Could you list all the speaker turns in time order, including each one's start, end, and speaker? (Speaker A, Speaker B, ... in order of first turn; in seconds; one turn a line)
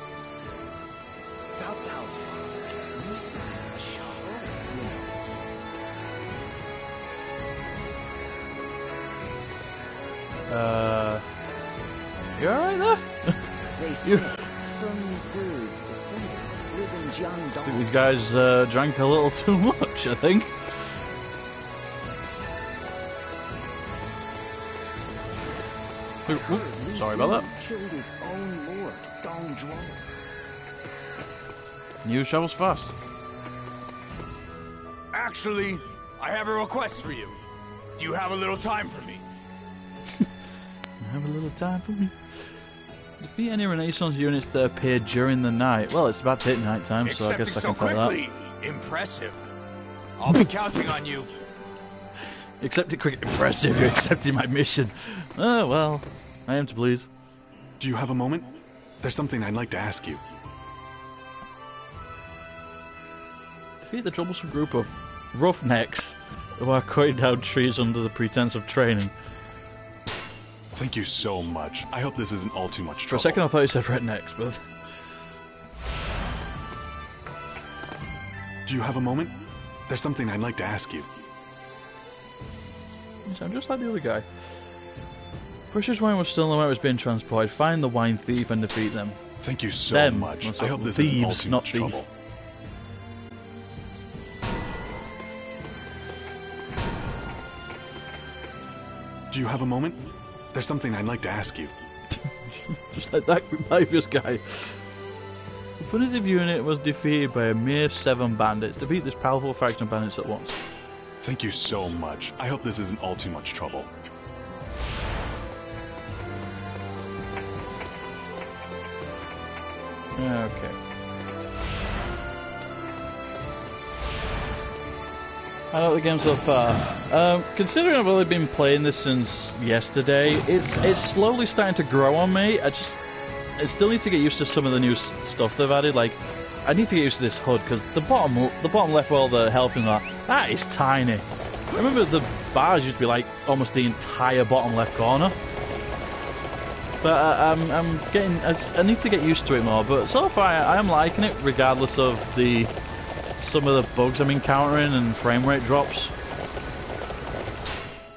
Speaker A: 1.5-5.1
Speaker B: 10.5-11.2
Speaker B: 12.4-13.4
Speaker A: 13.8-17.9
Speaker B: 17.6-20.9
Speaker A: 26.2-30.0
Speaker B: 26.3-27.4
Speaker B: 32.0-32.9
Speaker C: 35.1-37.3
Speaker C: 38.1-38.5
Speaker B: 41.0-42.5
Speaker B: 43.2-48.2
Speaker C: 47.0-49.4
Speaker C: 50.2-51.2
Speaker B: 52.6-57.1
Speaker D: 57.8-60.2
Speaker B: 63.9-69.1
Speaker D: 70.7-73.4
Speaker B: 73.1-74.6
Speaker D: 78.7-79.3
Speaker D: 79.9-81.1
Speaker B: 83.2-84.2
Speaker B: 85.7-89.2
Speaker D: 89.4-92.1
Speaker B: 89.9-92.0
Speaker D: 99.3-101.7
Speaker B: 102.1-104.8
Speaker B: 105.8-110.6
Speaker D: 111.2-113.9
Speaker B: 120.2-120.8
Speaker B: 125.7-133.0
Speaker B: 133.6-145.3
Speaker B: 147.0-152.7
Speaker B: 153.4-156.1